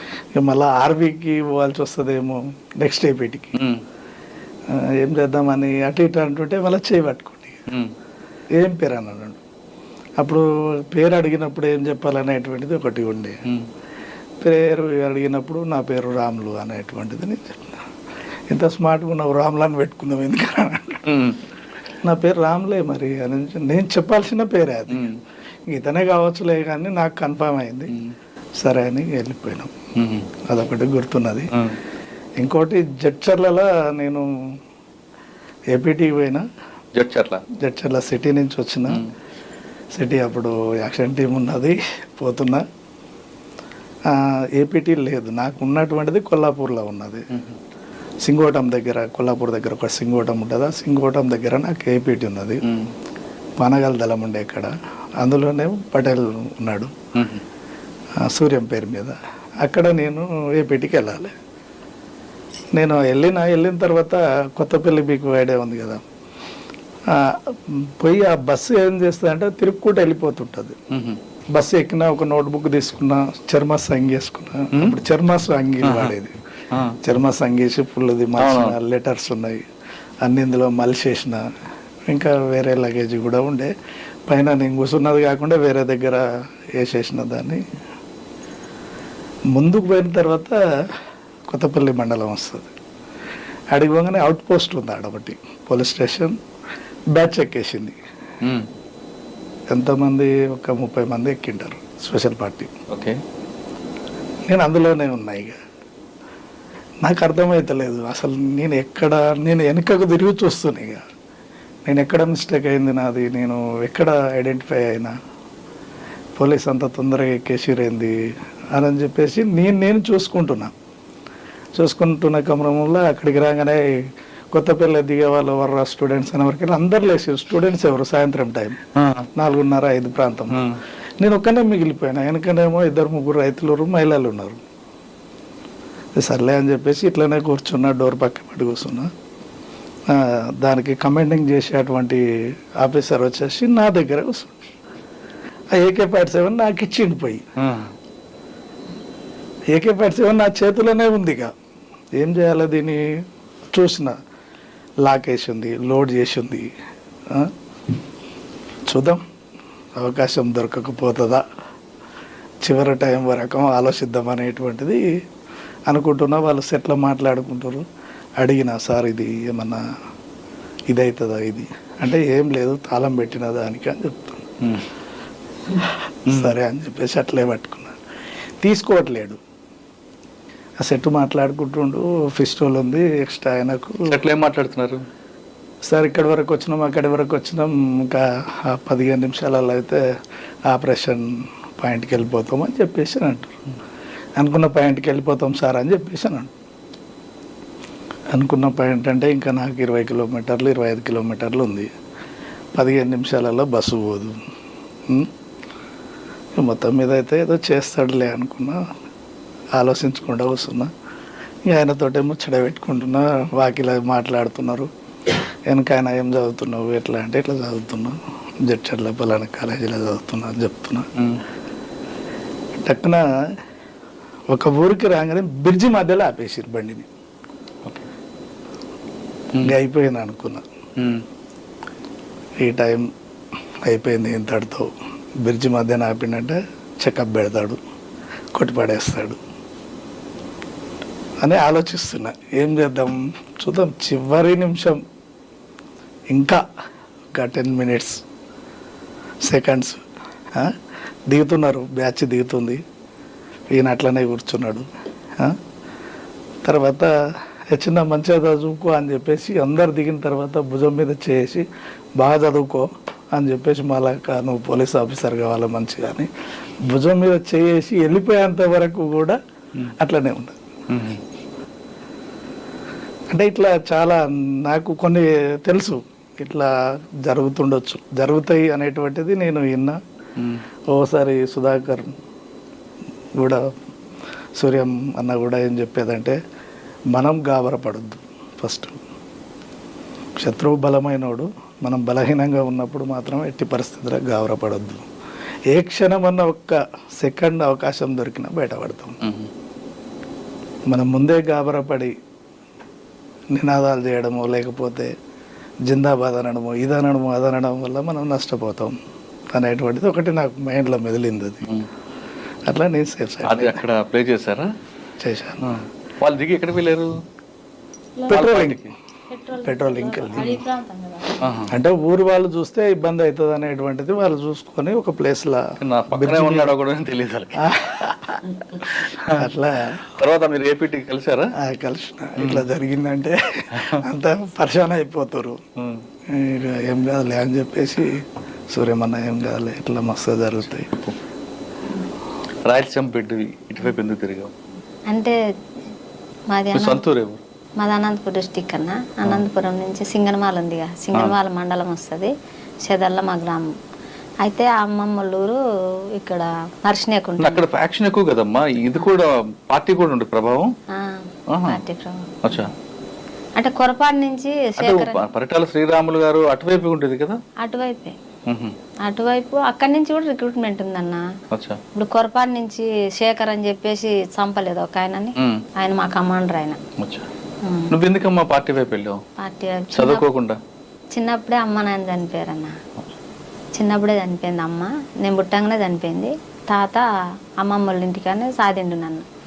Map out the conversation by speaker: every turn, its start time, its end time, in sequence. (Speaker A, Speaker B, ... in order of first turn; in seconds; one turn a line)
Speaker A: 0.3-3.6
Speaker B: 3.5-3.8
Speaker A: 4.7-7.7
Speaker A: 8.6-9.4
Speaker A: 10.2-13.4
Speaker A: 14.4-17.9
Speaker A: 18.5-21.1
Speaker B: 21.1-21.4
Speaker A: 22.0-25.1
Speaker B: 24.9-25.2
Speaker A: 25.7-28.0
Speaker A: 28.6-29.7
Speaker B: 30.0-30.3
Speaker A: 30.4-31.5
Speaker A: 32.4-34.6
Speaker A: 35.7-36.5
Speaker B: 37.0-37.4
Speaker A: 37.5-39.0
Speaker A: 39.9-42.6
Speaker A: 44.1-47.3
Speaker A: 48.2-52.6
Speaker B: 52.6-52.9
Speaker A: 53.6-57.0
Speaker B: 57.1-57.4
Speaker A: 58.2-61.3
Speaker A: 62.8-66.0
Speaker A: 67.1-70.8
Speaker B: 70.9-71.2
Speaker A: 71.5-76.3
Speaker B: 74.7-75.0
Speaker B: 75.8-76.1
Speaker B: 76.7-77.0
Speaker A: 77.0-79.6
Speaker B: 78.4-78.8
Speaker A: 80.2-81.5
Speaker A: 82.1-83.7
Speaker A: 84.3-87.6
Speaker A: 89.5-91.0
Speaker A: 91.5-92.7
Speaker A: 93.7-96.4
Speaker A: 97.1-98.0
Speaker B: 98.4-98.7
Speaker A: 99.7-102.7
Speaker B: 102.9-103.2
Speaker A: 104.5-105.6
Speaker A: 107.0-111.0
Speaker A: 111.9-115.2
Speaker A: 116.4-120.7
Speaker A: 121.8-128.8
Speaker B: 129.0-129.3
Speaker A: 129.3-130.7
Speaker B: 130.5-130.8
Speaker A: 131.2-134.6
Speaker A: 136.2-139.1
Speaker A: 140.1-144.6
Speaker A: 145.7-147.5
Speaker B: 147.6-147.9
Speaker A: 149.7-151.5
Speaker A: 152.2-154.2
Speaker A: 155.0-156.7
Speaker A: 157.3-157.5
Speaker A: 158.9-159.2
Speaker A: 160.0-161.4
Speaker A: 162.6-165.2
Speaker A: 165.9-167.9
Speaker A: 168.4-169.8
Speaker A: 170.9-174.5
Speaker B: 174.6-174.9
Speaker A: 175.8-178.0
Speaker B: 176.3-176.5
Speaker A: 178.6-179.4
Speaker A: 180.8-184.2
Speaker B: 184.1-185.1
Speaker A: 185.9-190.0
Speaker A: 190.7-193.6
Speaker A: 194.4-196.5
Speaker A: 198.3-201.9
Speaker A: 202.7-204.4
Speaker A: 205.1-205.3
Speaker A: 206.6-208.9
Speaker A: 209.8-210.9
Speaker A: 211.7-214.9
Speaker A: 215.7-221.1
Speaker B: 221.2-221.4
Speaker A: 222.8-223.6
Speaker A: 224.5-227.1
Speaker A: 229.6-230.6
Speaker B: 231.0-231.2
Speaker A: 232.6-233.1
Speaker A: 233.8-237.8
Speaker A: 238.6-239.4
Speaker A: 241.4-245.0
Speaker A: 246.3-246.6
Speaker A: 247.3-248.2
Speaker A: 249.4-250.0
Speaker A: 251.3-252.8
Speaker A: 253.7-255.6
Speaker A: 256.6-261.7
Speaker A: 262.2-266.3
Speaker A: 266.8-269.4
Speaker A: 270.0-270.6
Speaker B: 270.9-271.2
Speaker A: 273.3-276.7
Speaker A: 277.2-280.0
Speaker B: 280.4-280.6
Speaker A: 280.9-282.1
Speaker A: 283.4-283.7
Speaker A: 284.6-286.4
Speaker A: 287.1-289.0
Speaker A: 290.4-295.1
Speaker A: 295.7-299.2
Speaker B: 299.2-299.5
Speaker A: 300.9-302.1
Speaker A: 303.5-305.1
Speaker A: 305.9-309.0
Speaker A: 309.5-311.7
Speaker A: 312.7-313.8
Speaker B: 313.4-314.7
Speaker A: 315.2-315.6
Speaker B: 315.6-317.2
Speaker C: 318.2-318.6
Speaker A: 318.3-318.9
Speaker B: 318.3-318.9
Speaker C: 319.3-321.4
Speaker A: 319.6-320.5
Speaker B: 321.4-321.8
Speaker A: 321.7-326.7
Speaker B: 325.8-327.7
Speaker A: 327.6-328.4
Speaker B: 328.9-329.5
Speaker A: 329.2-330.0
Speaker B: 330.1-331.5
Speaker A: 331.6-335.6
Speaker B: 332.4-332.7
Speaker B: 333.8-334.0
Speaker B: 335.8-336.0
Speaker A: 336.3-340.9
Speaker B: 342.6-344.5
Speaker C: 345.1-345.4
Speaker C: 346.5-347.0
Speaker B: 346.7-347.4
Speaker C: 347.8-352.3
Speaker C: 352.8-353.7
Speaker C: 354.4-355.6
Speaker C: 356.2-357.6
Speaker B: 357.4-360.7
Speaker C: 360.9-362.3
Speaker B: 361.5-361.8
Speaker B: 362.4-362.7
Speaker C: 363.6-365.2
Speaker B: 364.8-367.4
Speaker C: 367.6-368.2
Speaker B: 368.5-368.8
Speaker C: 369.0-371.3
Speaker B: 371.5-371.8
Speaker C: 371.9-376.8
Speaker B: 375.4-375.6
Speaker B: 377.0-377.3
Speaker C: 377.6-377.9
Speaker B: 377.9-379.2
Speaker C: 379.4-380.2
Speaker B: 379.9-380.6
Speaker C: 381.1-382.8
Speaker C: 383.7-389.3